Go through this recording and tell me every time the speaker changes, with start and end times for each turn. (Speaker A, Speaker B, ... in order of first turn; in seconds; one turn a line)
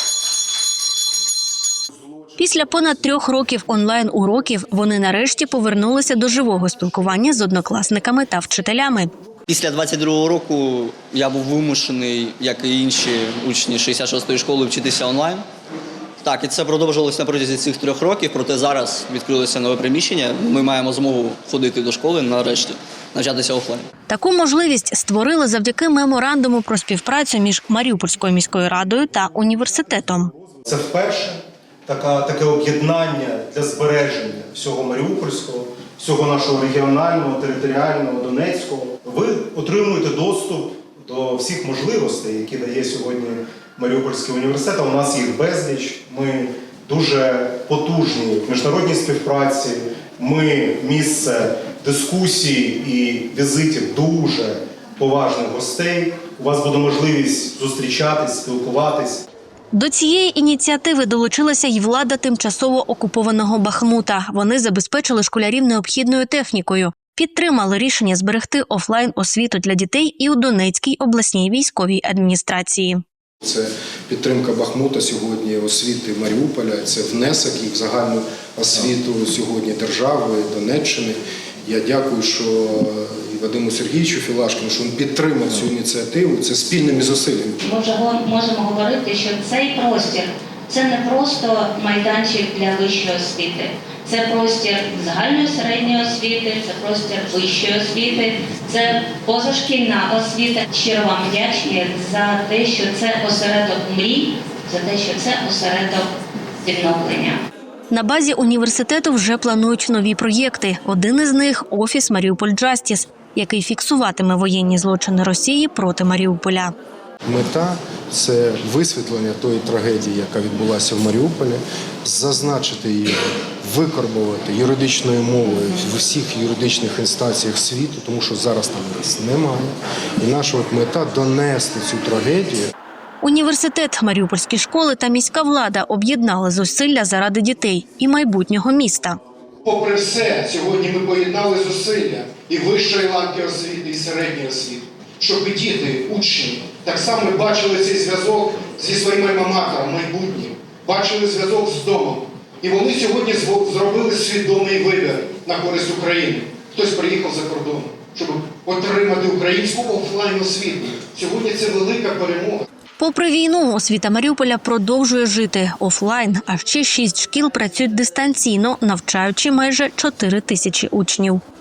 Speaker A: 2.4-9.1
Speaker B: 9.5-15.5
Speaker B: 16.2-23.9
Speaker A: 24.1-30.3
Speaker C: 30.6-59.2
Speaker A: 59.7-73.0
Speaker D: 73.4-87.6
Speaker E: 87.6-106.1
Speaker E: 106.6-107.4
Speaker A: 107.9-116.7
Speaker D: 117.3-132.7
Speaker A: 133.2-139.2
Speaker F: 139.7-162.7
Speaker A: 163.0-171.4